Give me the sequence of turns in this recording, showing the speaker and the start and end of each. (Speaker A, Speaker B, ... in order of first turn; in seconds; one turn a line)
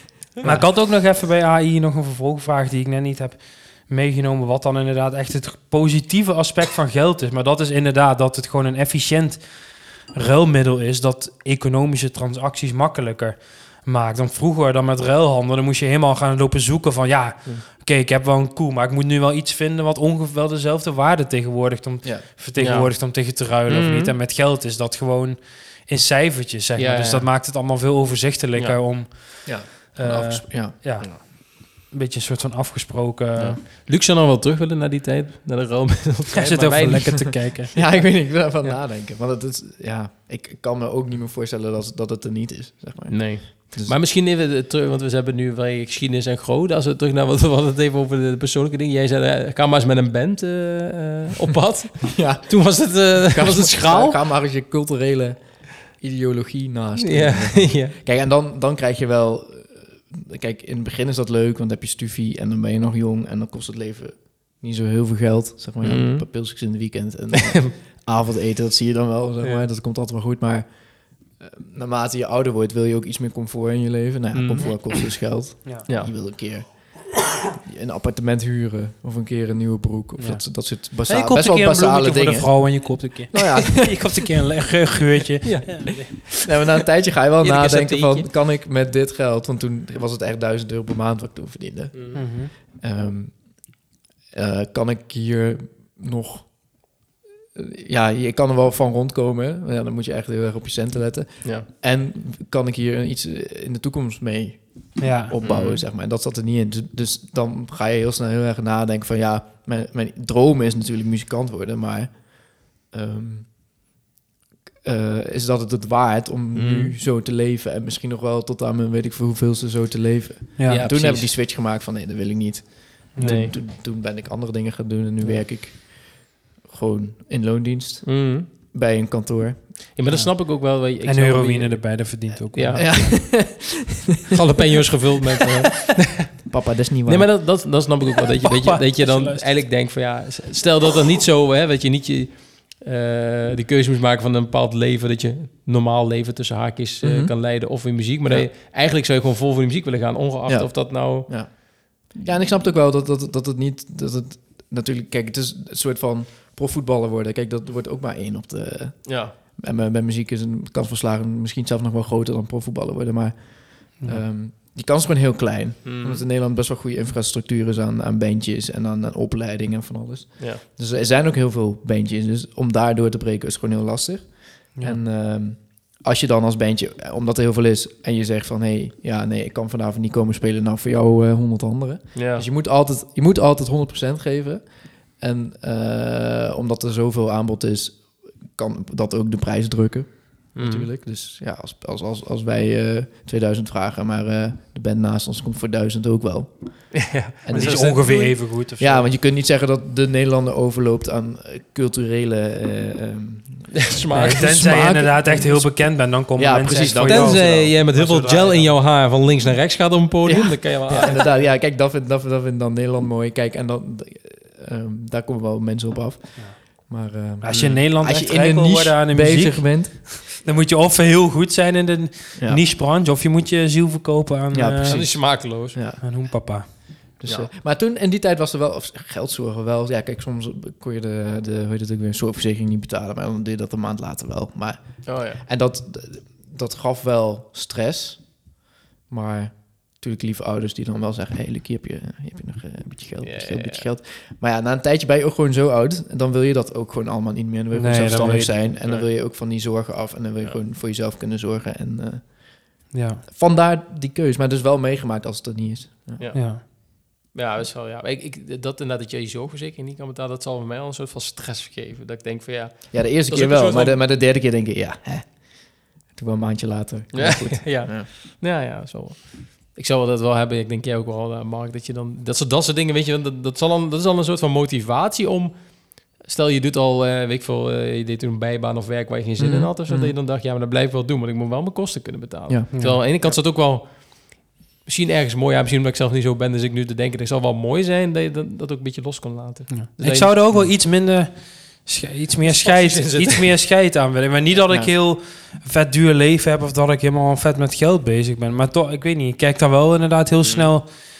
Speaker A: 0.4-33.6
Speaker B: 22.6-24.1
Speaker B: 26.8-27.3
Speaker C: 29.4-31.1
Speaker B: 33.4-37.5
Speaker A: 36.3-37.7
Speaker C: 37.7-44.0
Speaker B: 43.1-54.2
Speaker C: 52.1-84.3
Speaker B: 57.0-57.9
Speaker B: 65.8-66.2
Speaker B: 67.3-67.7
Speaker B: 74.3-75.1
Speaker A: 80.2-80.4
Speaker A: 81.0-86.3
Speaker B: 85.4-86.3
Speaker C: 86.4-93.5
Speaker B: 87.4-88.3
Speaker B: 91.9-92.2
Speaker A: 92.1-92.5
Speaker C: 94.3-96.5
Speaker C: 97.5-113.5
Speaker A: 105.0-105.3
Speaker B: 105.4-105.8
Speaker C: 114.8-129.8
Speaker B: 116.5-116.9
Speaker A: 120.6-120.8
Speaker B: 120.7-121.3
Speaker A: 123.2-123.4
Speaker B: 123.2-123.5
Speaker B: 128.0-128.5
Speaker B: 129.9-133.2
Speaker A: 130.1-133.4
Speaker C: 132.7-134.3
Speaker B: 134.3-136.4
Speaker C: 136.5-137.3
Speaker B: 137.1-151.5
Speaker A: 138.5-139.4
Speaker C: 147.0-147.3
Speaker C: 150.5-184.6
Speaker B: 159.1-159.3
Speaker B: 165.8-166.2
Speaker B: 182.1-182.5
Speaker C: 185.2-207.8
Speaker B: 190.5-190.9
Speaker B: 196.9-198.4
Speaker A: 197.5-199.1
Speaker B: 203.7-204.8
Speaker A: 204.1-208.8
Speaker B: 207.1-211.2
Speaker C: 210.2-220.0
Speaker A: 217.4-225.0
Speaker C: 222.4-222.6
Speaker C: 224.5-226.0
Speaker B: 224.8-225.8
Speaker A: 226.0-226.7
Speaker C: 227.2-238.4
Speaker B: 235.1-235.4
Speaker C: 239.1-252.4
Speaker B: 243.2-243.8
Speaker A: 247.7-248.6
Speaker B: 248.8-249.1
Speaker A: 252.9-253.2
Speaker C: 253.3-256.2
Speaker B: 256.2-264.0
Speaker A: 256.3-256.6
Speaker C: 262.9-268.1
Speaker B: 267.1-290.4
Speaker C: 279.4-280.1
Speaker A: 282.7-283.0
Speaker A: 289.7-300.9
Speaker B: 292.4-293.5